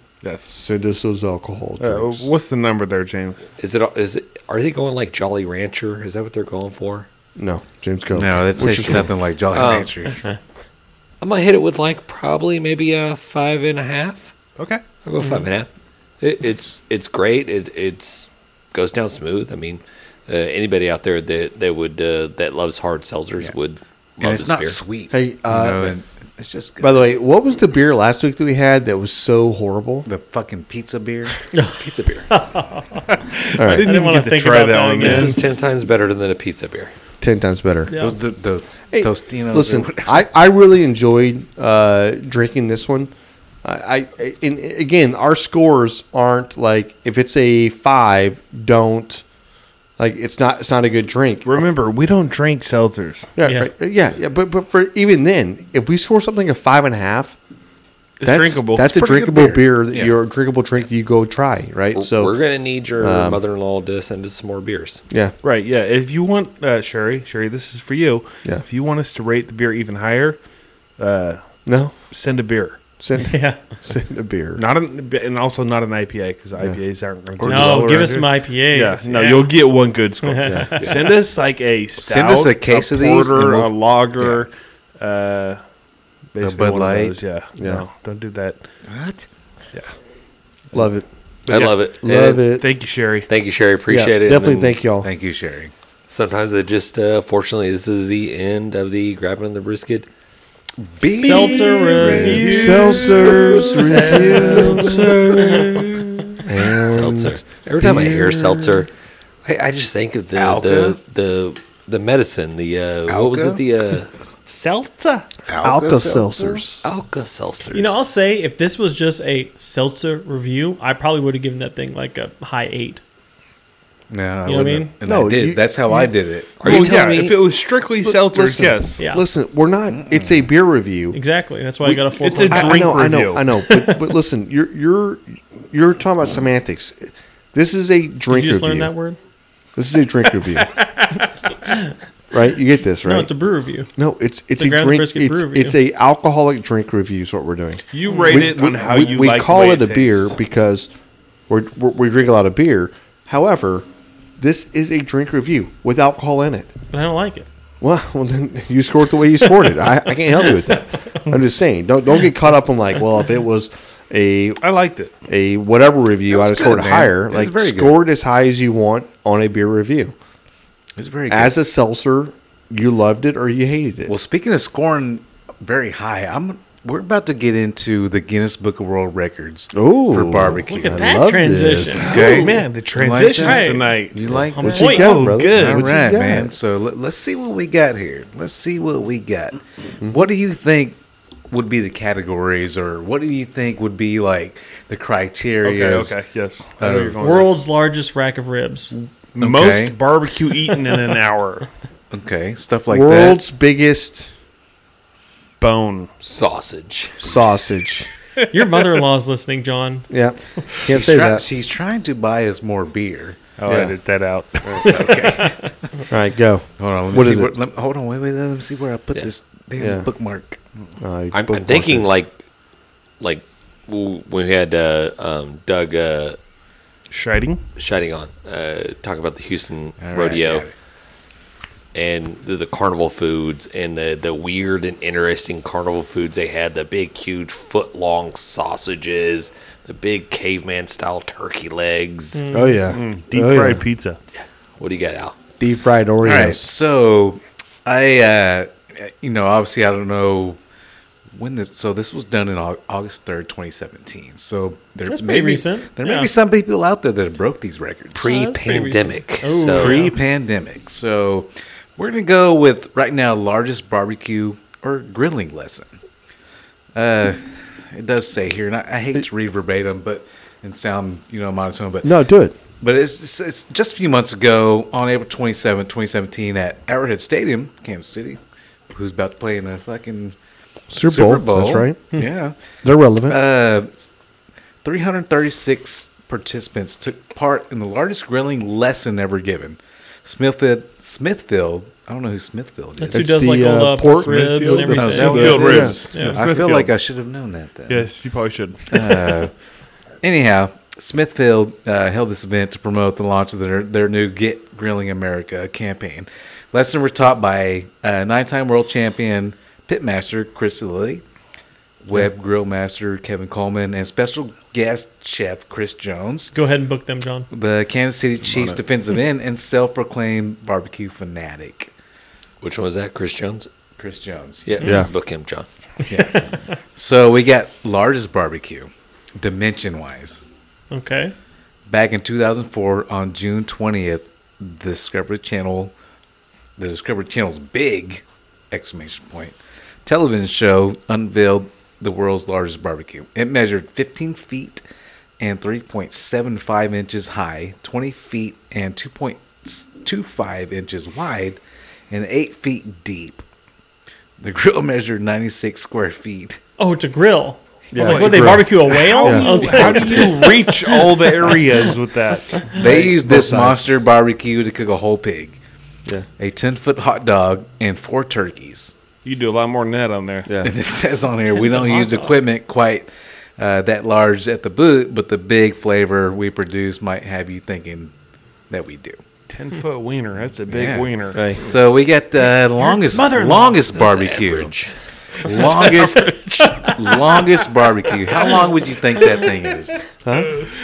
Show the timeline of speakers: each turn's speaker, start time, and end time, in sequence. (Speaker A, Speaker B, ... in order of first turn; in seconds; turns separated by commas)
Speaker A: 0.2-0.5, Speaker B: 0.5-2.3, Speaker A: 1.8-3.4, Speaker C: 3.6-7.1, Speaker B: 7.4-9.1, Speaker D: 8.1-10.3, Speaker C: 9.5-9.9, Speaker C: 11.2-14.3, Speaker A: 14.6-14.8, Speaker C: 15.0-15.7, Speaker C: 16.2-24.8, Speaker D: 24.2-27.0, Speaker B: 25.1-25.9, Speaker B: 26.8-30.1, Speaker D: 30.1-31.4, Speaker C: 31.8-32.3, Speaker E: 32.3-33.0, Speaker A: 33.1-35.4, Speaker B: 33.5-33.9, Speaker E: 33.8-35.4, Speaker C: 35.0-36.9, Speaker B: 37.2-37.9, Speaker E: 37.9-38.2, Speaker D: 38.0-40.2, Speaker B: 38.9-43.1, Speaker B: 43.6-49.2, Speaker B: 50.0-51.7, Speaker A: 51.4-53.3, Speaker B: 53.4-57.4, Speaker E: 53.4-53.7, Speaker A: 58.2-58.9, Speaker B: 58.2-62.3, Speaker D: 58.9-60.1, Speaker C: 61.9-65.0, Speaker B: 63.0-63.4, Speaker B: 65.1-65.3, Speaker A: 65.4-70.4, Speaker A: 71.0-71.4, Speaker B: 71.7-71.9, Speaker A: 72.1-72.8, Speaker B: 73.0-74.6, Speaker E: 73.3-73.6, Speaker A: 74.5-78.2, Speaker D: 77.4-78.3, Speaker E: 77.4-79.5, Speaker A: 78.7-85.6, Speaker E: 80.2-81.0, Speaker B: 80.4-80.7, Speaker D: 82.0-84.4, Speaker A: 86.3-88.6, Speaker D: 86.4-87.2, Speaker B: 87.6-87.8, Speaker D: 88.9-89.2, Speaker B: 90.7-91.1, Speaker C: 91.5-92.4, Speaker A: 91.5-93.3, Speaker B: 92.0-92.7, Speaker C: 93.3-94.8, Speaker B: 93.9-95.1, Speaker D: 95.0-95.7, Speaker C: 96.1-100.1, Speaker D: 100.8-105.7, Speaker E: 101.2-103.1, Speaker A: 101.2-103.0, Speaker B: 102.3-105.6, Speaker A: 103.6-106.0, Speaker E: 103.9-104.8, Speaker C: 104.2-104.8, Speaker B: 106.5-108.8, Speaker C: 106.5-108.9, Speaker C: 109.4-114.1, Speaker D: 110.3-111.0, Speaker D: 113.1-113.6, Speaker A: 114.5-115.3, Speaker D: 115.5-116.6, Speaker B: 115.6-116.8, Speaker C: 116.8-118.1, Speaker E: 117.7-123.0, Speaker D: 124.1-126.9, Speaker E: 124.4-124.9, Speaker B: 125.0-125.7, Speaker C: 126.6-127.4, Speaker A: 126.6-129.0, Speaker B: 128.0-131.2, Speaker E: 129.0-129.2, Speaker D: 129.9-130.4, Speaker E: 131.1-133.1, Speaker B: 131.8-138.9, Speaker A: 132.2-133.4, Speaker E: 138.3-139.2, Speaker B: 139.8-140.7, Speaker E: 140.8-141.9, Speaker B: 142.3-143.3, Speaker E: 143.0-143.9, Speaker B: 143.9-150.9, Speaker E: 144.6-145.8, Speaker A: 147.9-150.3, Speaker E: 148.1-148.5, Speaker B: 151.5-153.9, Speaker B: 154.4-156.7, Speaker E: 156.9-157.5, Speaker B: 157.8-164.6, Speaker A: 164.6-165.1, Speaker B: 165.3-170.1, Speaker D: 166.3-168.0, Speaker D: 170.9-171.6, Speaker B: 171.3-174.1, Speaker D: 174.1-181.3, Speaker B: 179.7-182.1, Speaker E: 180.7-182.4, Speaker D: 182.0-190.9, Speaker A: 182.1-186.1, Speaker E: 183.4-183.9, Speaker B: 184.3-186.5, Speaker E: 184.7-185.1, Speaker D: 191.5-196.2, Speaker A: 195.6-197.6, Speaker D: 196.8-197.3, Speaker E: 197.2-198.9, Speaker A: 198.9-201.7, Speaker D: 199.4-199.9, Speaker D: 202.1-203.4, Speaker B: 202.9-204.3, Speaker A: 205.6-206.1, Speaker C: 206.2-207.4, Speaker B: 207.2-208.1, Speaker E: 208.5-210.1, Speaker B: 210.1-211.4, Speaker D: 210.8-213.4, Speaker A: 213.6-215.4, Speaker B: 213.7-213.9, Speaker B: 214.6-214.9, Speaker D: 214.8-216.1, Speaker B: 216.1-217.5, Speaker D: 216.8-220.6, Speaker B: 219.8-220.1, Speaker B: 221.0-222.1, Speaker C: 221.3-222.3, Speaker C: 223.2-226.4, Speaker A: 227.1-227.6, Speaker C: 227.8-230.7, Speaker D: 230.0-230.7, Speaker C: 231.9-242.4, Speaker E: 242.3-242.8, Speaker B: 242.5-243.8, Speaker A: 242.9-244.2, Speaker C: 244.8-245.4, Speaker B: 245.6-246.7, Speaker D: 246.2-250.6, Speaker D: 251.3-258.2, Speaker E: 255.1-256.3, Speaker C: 258.1-260.1, Speaker E: 258.2-260.1, Speaker D: 259.6-265.9, Speaker D: 266.9-272.1, Speaker B: 272.0-272.6, Speaker D: 272.8-280.4, Speaker B: 280.9-282.1, Speaker D: 281.0-282.6, Speaker B: 282.8-283.4, Speaker D: 283.3-284.1, Speaker D: 284.8-293.4, Speaker E: 293.0-296.4, Speaker B: 293.1-296.0, Speaker A: 294.0-296.9, Speaker D: 294.9-298.1, Speaker A: 297.9-299.3, Speaker D: 298.9-299.5, Speaker D: 300.2-311.2, Speaker D: 312.0-316.5, Speaker E: 316.5-317.5, Speaker D: 317.5-321.9, Speaker C: 322.6-323.7, Speaker D: 324.0-324.7, Speaker C: 324.6-325.6, Speaker B: 324.8-325.1, Speaker D: 326.1-330.5, Speaker E: 326.1-326.7, Speaker E: 330.9-331.3, Speaker D: 331.9-335.9, Speaker D: 336.8-344.8, Speaker D: 345.4-351.6, Speaker D: 352.1-353.4, Speaker D: 354.4-356.6, Speaker E: 356.8-361.3, Speaker B: 357.9-358.7, Speaker A: 357.9-363.2, Speaker B: 359.2-359.6, Speaker D: 359.6-360.0, Speaker D: 362.7-365.6, Speaker B: 362.9-363.9, Speaker D: 366.4-368.9, Speaker A: 369.2-370.5, Speaker B: 370.5-370.7, Speaker D: 370.6-378.1, Speaker E: 371.5-372.3, Speaker D: 378.7-379.2, Speaker A: 379.5-381.5, Speaker D: 380.7-384.7, Speaker B: 381.3-381.6, Speaker E: 383.1-383.8, Speaker C: 383.9-384.9, Speaker D: 385.4-390.1, Speaker A: 385.7-386.4, Speaker E: 385.9-387.2, Speaker B: 390.2-390.6